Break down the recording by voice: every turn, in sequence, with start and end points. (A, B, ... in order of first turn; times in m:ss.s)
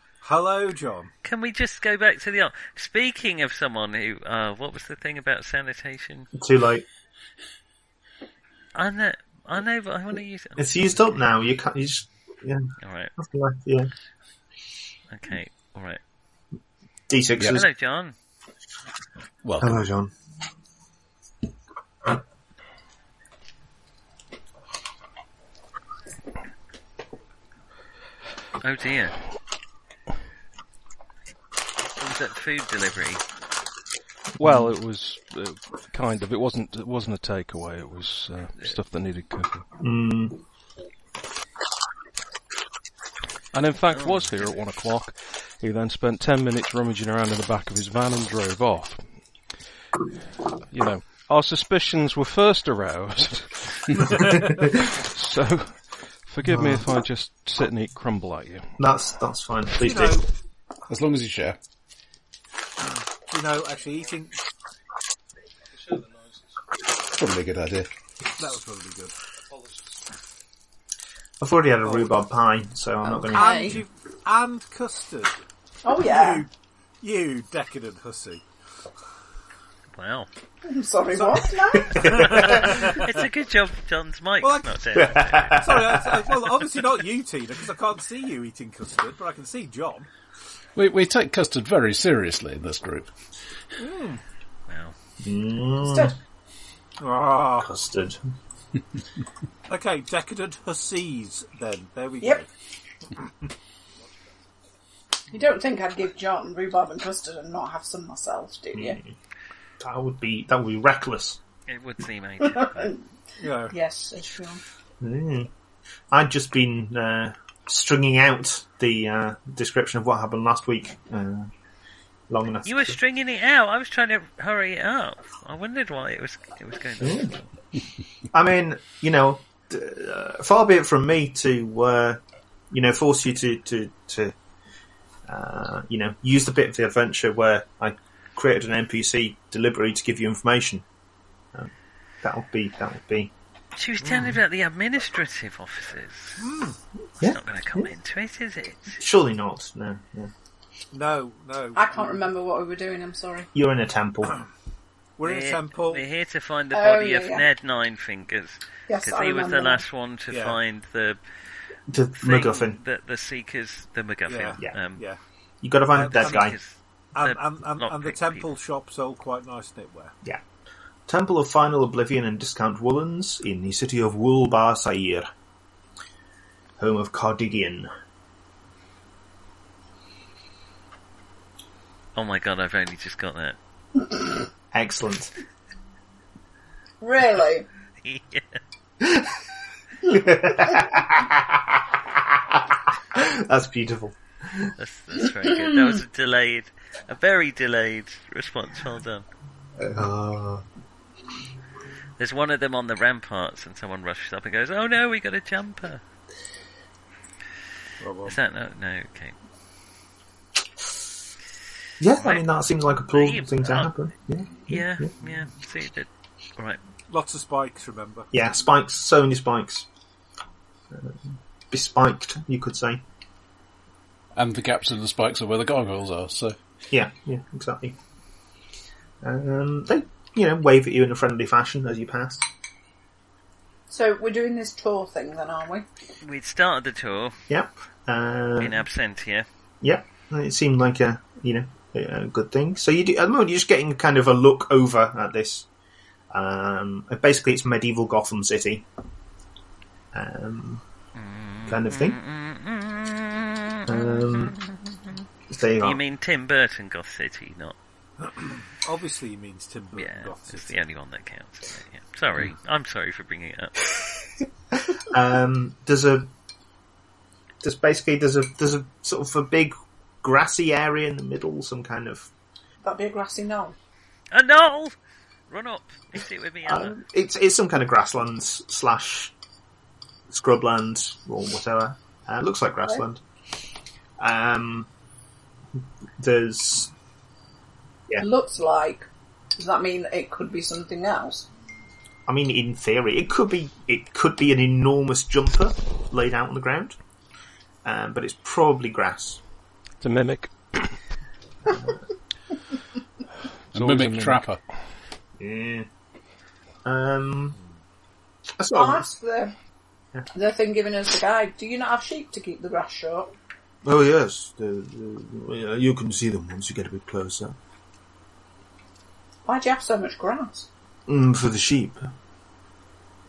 0:00.2-0:01.1 A
0:01.2-0:06.3 B
0:06.3-0:06.8 C
0:08.8-0:10.8 B
0:10.6-0:13.9 C
0:12.8-0:13.1 B
0:15.1-0:16.0 B
0:17.1-0:17.7 C
0:17.4-0:18.2 B
0:19.4-0:19.8 D
0:19.6-0:20.1 C
0:28.6-0:29.2 B
0:32.0-0:33.2 B
0:34.4-0:39.7 E
0:39.8-0:40.4 C
0:43.5-0:49.1 E
0:43.9-0:44.5 B
0:50.7-0:54.0 E
0:54.7-0:58.8 E
0:56.5-0:56.9 C
0:58.8-1:00.2 C
0:59.8-1:00.3 A
1:00.9-1:01.6 D
1:03.3-1:04.4 A
1:07.0-1:07.9 D
1:08.4-1:09.2 A
1:11.4-1:13.8 C
1:11.8-1:12.2 A
1:13.1-1:13.8 F
1:13.1-1:15.4 A
1:15.8-1:16.5 F
1:15.9-1:16.5 A
1:17.0-1:18.4 A
1:19.9-1:20.3 B
1:20.6-1:22.6 F
1:21.1-1:21.4 A
1:21.7-1:22.9 C
1:22.0-1:23.1 A
1:22.2-1:25.6 B
1:24.4-1:30.1 A
1:24.9-1:26.3 C
1:30.8-1:33.1 D
1:33.8-1:34.2 A
1:34.7-1:35.0 B
1:35.2-1:36.2 C
1:35.8-1:36.2 F
1:37.0-1:37.7 A
1:37.6-1:38.3 C
1:39.7-1:42.5 A
1:45.3-1:49.0 F
1:48.7-1:49.2 C
1:49.8-1:51.4 C
1:51.7-1:53.0 B
1:52.4-1:53.0 F
1:53.4-1:53.8 A
1:53.7-1:54.6 F
1:55.0-1:55.5 C
1:56.1-2:01.5 C
2:02.3-2:03.0 C
2:02.7-2:07.4 B
2:07.0-2:07.4 C
2:08.3-2:14.4 C
2:15.3-2:20.9 C
2:21.5-2:23.3 C
2:23.8-2:26.4 B
2:24.0-2:24.3 A
2:26.4-2:26.8 A
2:27.2-2:27.9 C
2:27.2-2:29.0 B
2:29.0-2:30.3 C
2:30.9-2:32.3 A
2:31.8-2:33.5 F
2:33.5-2:34.4 C
2:35.2-2:36.0 A
2:35.2-2:41.2 B
2:36.7-2:37.5 F
2:38.9-2:39.8 F
2:40.3-2:40.6 A
2:41.9-2:42.8 C
2:42.2-2:45.0 B
2:44.3-2:45.2 A
2:45.6-2:46.6 C
2:46.0-2:46.5 A
2:46.1-2:48.5 B
2:47.2-2:50.1 A
2:51.1-2:55.3 C
2:56.8-2:57.9 C
3:02.2-3:03.6 B
3:04.7-3:05.4 C
3:07.0-3:07.7 F
3:08.0-3:08.6 B
3:09.0-3:09.4 C
3:10.0-3:14.7 C
3:14.8-3:19.3 B
3:19.8-3:20.6 C
3:22.2-3:26.0 B
3:28.0-3:28.4 A
3:28.3-3:29.4 B
3:32.0-3:35.1 C
3:32.2-3:33.9 B
3:34.7-3:36.8 B
3:37.1-3:38.3 A
3:38.3-3:39.9 C
3:40.9-3:43.0 C
3:44.4-3:46.6 D
3:46.9-3:48.0 C
3:49.2-3:52.5 C
3:53.9-3:55.9 F
3:56.2-3:57.4 B
3:57.5-3:58.8 C
3:58.6-3:59.5 B
3:59.8-4:05.7 C
4:06.3-4:08.9 C
4:10.1-4:10.8 C
4:11.2-4:14.5 B
4:11.7-4:12.2 C
4:13.9-4:14.6 C
4:15.5-4:16.0 C
4:15.8-4:17.8 B
4:18.2-4:20.8 A
4:19.9-4:23.8 B
4:24.9-4:26.3 C
4:27.6-4:32.3 C
4:32.8-4:33.8 F
4:34.3-4:35.0 B
4:35.5-4:37.0 B
4:36.6-4:39.3 C
4:40.3-4:43.2 C
4:44.2-4:44.9 C
4:46.2-4:46.9 C
4:48.2-4:51.5 F
4:52.3-4:57.0 C
4:57.8-4:59.4 C
5:00.0-5:01.0 E
5:01.7-5:02.0 C
5:03.7-5:04.6 D
5:03.8-5:04.5 E
5:05.4-5:05.9 C
5:06.8-5:07.6 C
5:08.6-5:09.1 C
5:08.7-5:09.5 F
5:10.3-5:13.3 F
5:13.8-5:17.6 C
5:19.4-5:20.7 F
5:21.1-5:22.1 C